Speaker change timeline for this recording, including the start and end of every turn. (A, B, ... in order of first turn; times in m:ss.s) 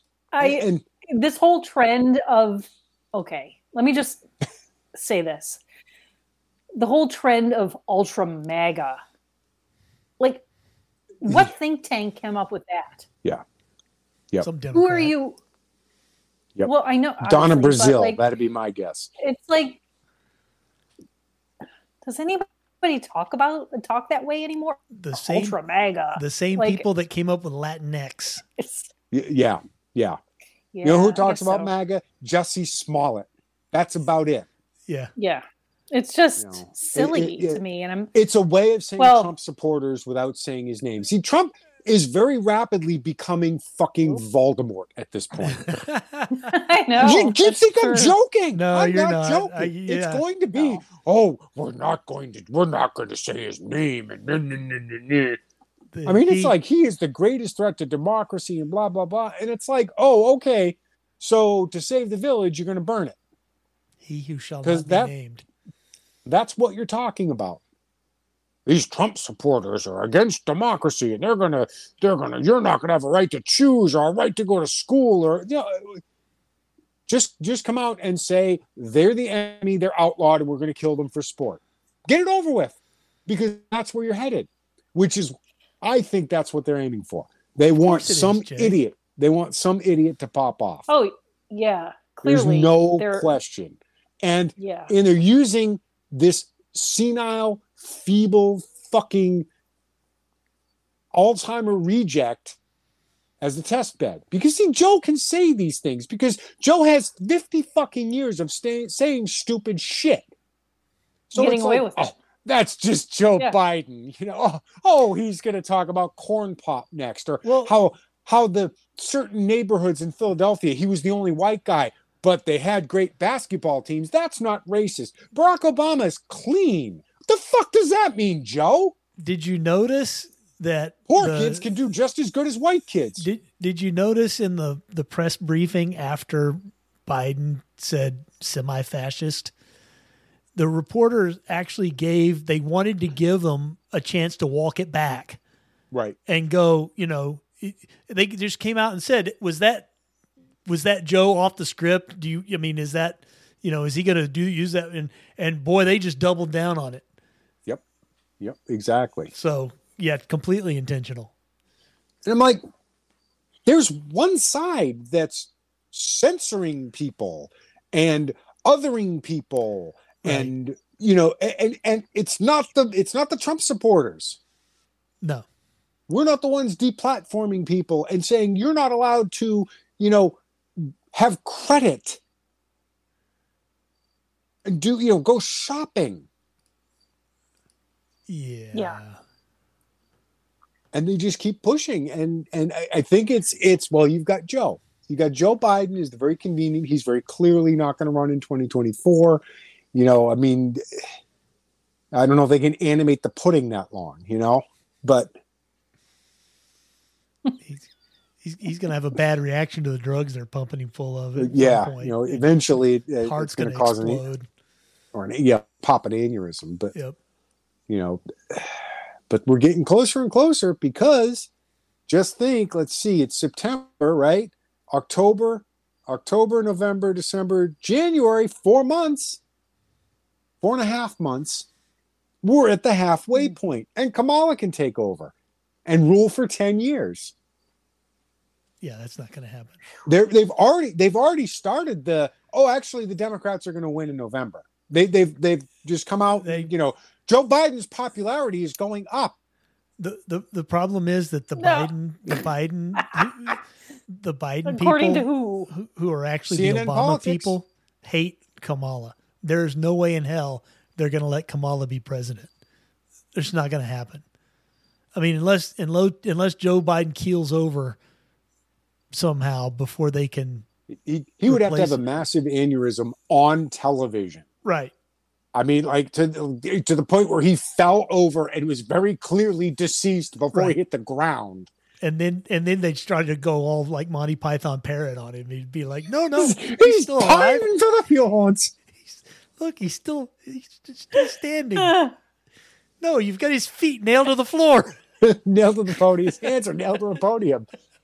0:00.3-0:04.2 A
0:00.4-0:00.8 B
0:04.9-0:05.6 A
0:06.7-0:09.0 A
0:10.2-0:10.5 A
0:11.2-0:13.1 A
0:14.4-0:15.2 C
0:14.7-0:15.4 A
0:16.6-0:19.1 B
0:16.6-0:18.2 A
0:19.2-0:19.8 A
0:22.0-0:26.8 A
0:24.9-0:25.6 C
0:26.2-0:28.4 C
0:28.6-0:28.9 A
0:29.1-0:30.2 B
0:30.7-0:31.7 A
0:30.8-0:34.5 B
0:34.9-0:35.1 C
0:35.2-0:38.1 A
0:36.4-0:37.6 B
0:38.1-0:45.8 B
0:39.0-0:39.3 A
0:45.5-0:46.4 C
0:46.3-0:48.2 A
0:47.0-0:55.4 B
0:48.5-0:50.2 C
0:55.9-0:56.6 C
0:56.1-1:03.2 B
1:04.0-1:05.4 C
1:04.6-1:05.1 B
1:06.2-1:07.6 B
1:08.7-1:16.0 B
1:17.1-1:30.9 B
1:27.8-1:28.8 C
1:30.9-1:33.3 A
1:32.2-1:39.5 B
1:34.6-1:34.9 A
1:41.1-1:42.6 B
1:43.4-1:50.3 B
1:51.3-2:09.0 B
1:51.3-1:52.0 A
1:57.4-1:57.7 C
2:09.2-2:11.6 C
2:11.1-2:13.3 B
2:13.2-2:19.5 C
2:20.6-2:25.4 C
2:25.9-2:26.2 B
2:26.3-2:29.9 C
2:30.7-2:37.0 C
2:38.4-2:39.3 B
2:39.3-2:41.3 C
2:42.2-2:42.6 B
2:43.6-2:54.4 B
2:50.2-2:50.5 C
2:56.1-3:02.2 B
3:04.7-3:06.3 B
3:08.3-3:09.2 C
3:08.7-3:09.0 A
3:10.9-3:19.4 B
3:19.9-3:21.0 B
3:22.1-3:25.3 B
3:27.6-3:27.9 C
3:28.4-3:32.6 C
3:31.4-3:34.2 B
3:33.2-3:34.5 C
3:35.1-3:36.9 B
3:37.9-3:41.5 B
3:42.1-3:49.4 B
3:50.6-3:51.7 B
3:52.4-3:55.3 B
3:55.9-3:57.3 B
3:58.8-3:59.8 C
4:00.1-4:09.4 B
4:06.4-4:06.7 C
4:10.0-4:22.5 C
4:11.6-4:11.9 A
4:14.7-4:15.7 A
4:16.5-4:17.6 B
4:23.4-4:24.2 C
4:25.2-4:28.0 C
4:29.1-4:30.6 C
4:30.9-4:34.4 B
4:31.5-4:32.1 C
4:34.6-4:34.9 C
4:35.5-4:41.7 B
4:42.0-4:47.6 C
4:46.4-4:48.7 B
4:49.0-4:52.0 C
4:51.8-4:52.1 A
4:53.0-4:55.0 C
4:55.2-4:57.7 B